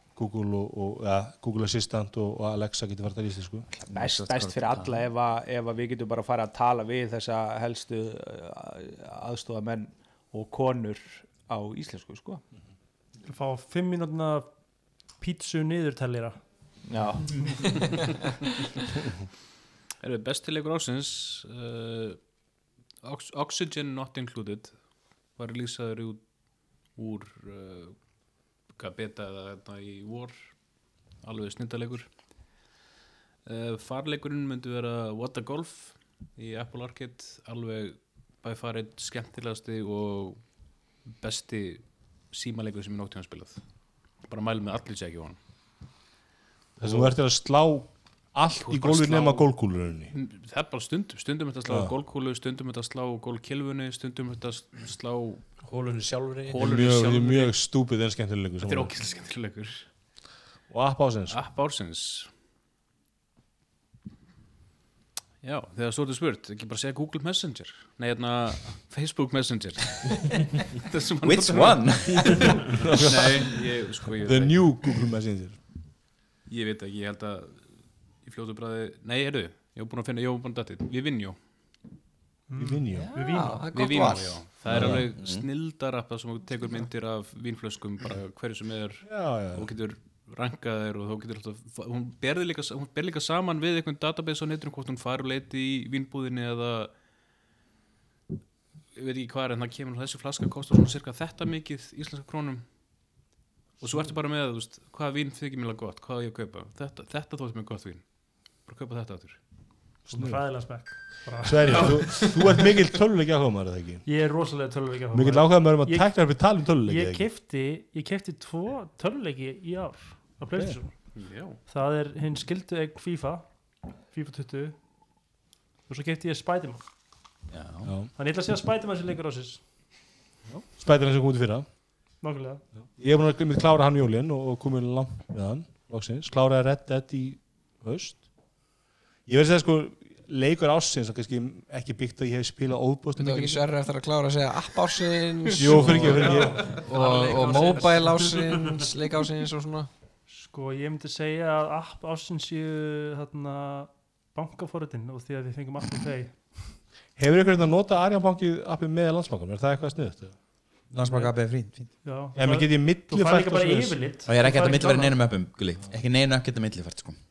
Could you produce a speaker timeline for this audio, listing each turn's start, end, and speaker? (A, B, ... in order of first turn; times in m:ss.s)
0:00.2-0:03.7 A
0:03.9-0:12.4 B
0:03.9-0:05.0 C
0:13.2-0:14.5 D
0:15.1-0:16.4 D
0:16.8-0:17.8 B
0:20.0-0:22.2 E
0:23.0-0:28.0 E
0:28.7-0:30.5 E
0:31.2-0:32.1 E
0:33.5-0:40.5 E
0:41.0-0:43.6 E
0:44.2-0:45.4 E
0:46.8-0:47.2 E
0:46.8-0:50.1 A
0:48.6-0:49.5 E
0:50.1-0:55.7 E
0:51.7-0:51.9 A
0:55.6-0:56.6 F
0:56.5-0:57.6 E
0:56.6-0:59.0 A
0:58.6-0:59.9 E
1:00.7-1:01.4 A
1:01.3-1:02.3 E
1:05.4-1:15.0 E
1:11.2-1:12.5 C
1:12.7-1:15.6 A
1:16.5-1:21.4 E
1:22.5-1:23.8 D
1:22.6-1:23.1 A
1:23.2-1:36.9 E
1:23.2-1:24.5 G
1:24.6-1:25.4 C
1:24.7-1:25.1 A
1:29.1-1:29.7 A
1:39.0-1:42.7 E
1:43.8-1:49.4 E
1:50.1-1:54.1 A
1:50.1-1:52.3 D
1:51.7-1:52.4 E
1:54.0-2:04.8 D
1:55.1-1:57.3 A
2:01.1-2:01.6 E
2:05.9-2:06.8 D
2:07.5-2:07.9 C
2:07.8-2:08.1 A
2:08.1-2:09.6 D
2:10.5-2:11.7 A
2:12.2-2:12.6 D
2:13.0-2:18.3 A
2:19.3-2:23.6 A
2:23.2-2:29.9 G
2:25.5-2:26.7 A
2:25.8-2:28.1 E
2:26.2-2:26.6 D
2:26.9-2:28.0 F
2:28.1-2:28.8 D
2:30.3-2:36.8 D
2:37.2-2:40.4 A
2:40.9-2:42.0 C
2:41.0-2:41.3 D
2:41.9-2:45.2 D
2:42.4-2:44.0 A
2:44.2-2:47.2 C